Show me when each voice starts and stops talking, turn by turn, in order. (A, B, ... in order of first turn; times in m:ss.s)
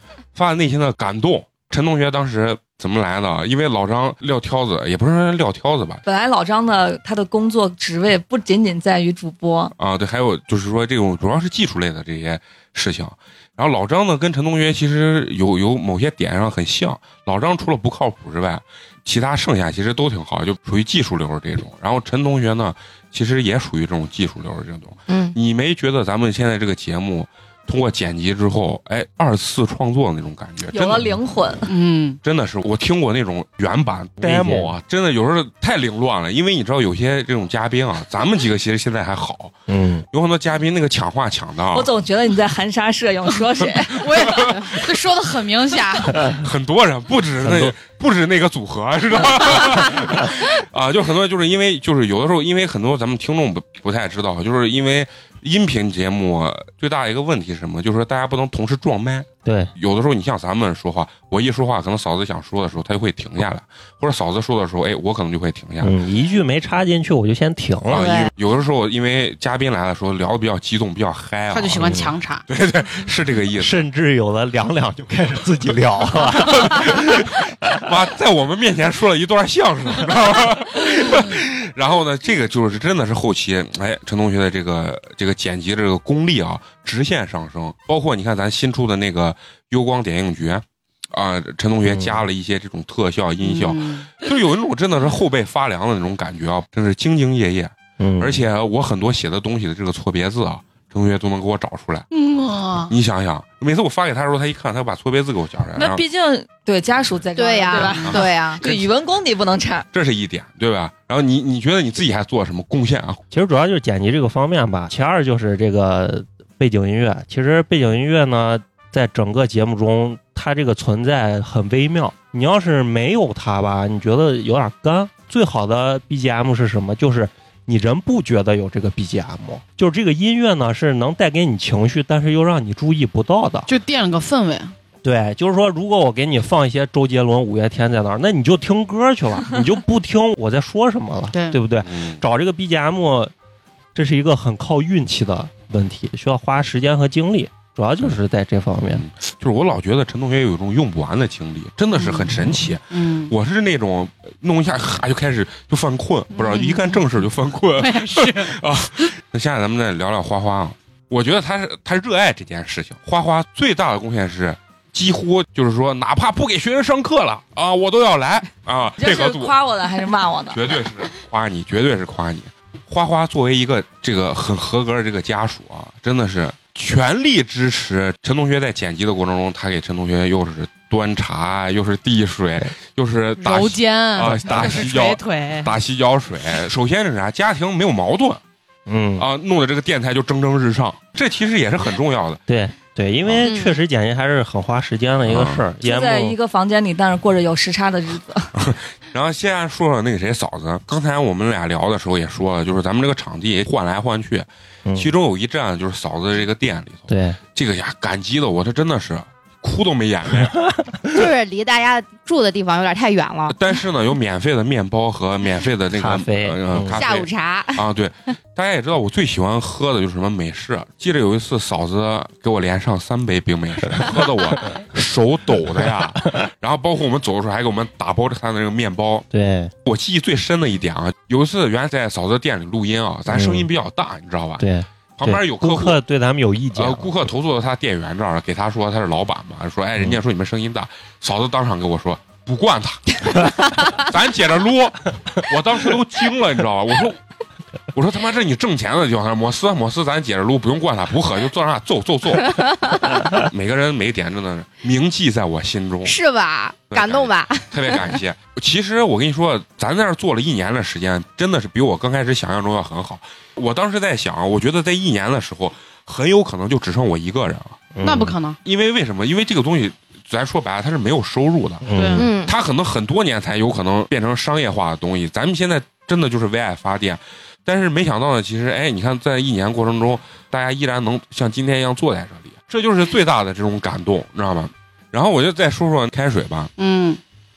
0:00.3-0:06.0 A
0:06.0-0:09.7 B
0:09.8-0:31.2 A
0:25.1-0:25.4 C
0:30.7-0:31.7 B
0:31.7-0:32.2 D
0:32.2-0:39.6 A
0:34.2-0:34.7 E
0:39.7-0:40.0 E
0:40.1-0:41.9 A
0:41.7-0:44.3 B
0:43.9-0:46.3 D
0:44.2-0:44.6 A
0:46.3-1:05.9 A
0:47.4-0:47.7 E
0:59.4-0:59.7 E
1:05.8-1:08.1 E
1:07.9-1:12.0 A
1:07.9-1:08.3 C
1:11.5-1:12.4 D
1:11.8-1:12.1 E
1:12.5-1:13.8 A
1:13.6-1:17.3 E
1:16.4-1:42.1 A
1:31.9-1:32.2 E
1:33.4-1:34.1 D
1:38.0-1:38.4 E
1:42.1-1:42.9 D
1:42.9-1:46.0 A
1:45.8-1:49.8 B
1:47.4-1:48.6 C
1:48.0-1:48.8 A
1:49.9-1:53.2 A
1:53.3-2:13.7 E
2:13.7-2:14.7 D
2:15.0-2:23.3 E
2:21.3-2:21.6 D
2:21.8-2:22.2 A
2:23.9-2:29.0 E
2:28.9-2:49.5 A
2:32.0-2:32.3 D
2:32.9-2:33.3 D
2:36.3-2:37.0 D
2:37.8-2:38.6 D
2:49.0-2:50.6 B
2:50.5-3:08.4 A
3:03.4-3:05.8 D
3:08.9-3:09.2 E
3:09.2-3:12.4 A
3:12.5-3:16.4 E
3:13.2-3:13.5 A
3:13.4-3:13.8 C
3:15.2-3:15.6 A
3:15.8-3:18.5 B
3:18.5-3:30.6 A
3:24.9-3:25.1 E
3:27.1-3:27.4 E
3:31.1-3:33.6 C
3:33.5-3:49.3 A
3:35.9-3:37.0 E
3:36.9-3:37.8 C
3:49.3-3:49.7 E
3:49.8-3:54.6 A
3:53.3-3:53.7 E
3:54.6-3:57.1 E
3:55.2-3:56.0 A
3:56.7-4:07.2 A
4:07.9-4:12.7 A
4:13.3-4:16.2 A
4:16.0-4:18.2 C
4:16.9-4:27.9 A
4:27.9-4:28.4 E
4:28.0-4:28.6 D
4:28.6-4:46.7 A
4:31.8-4:32.3 E
4:31.9-4:32.3 D
4:32.1-4:32.5 C
4:46.8-4:47.2 D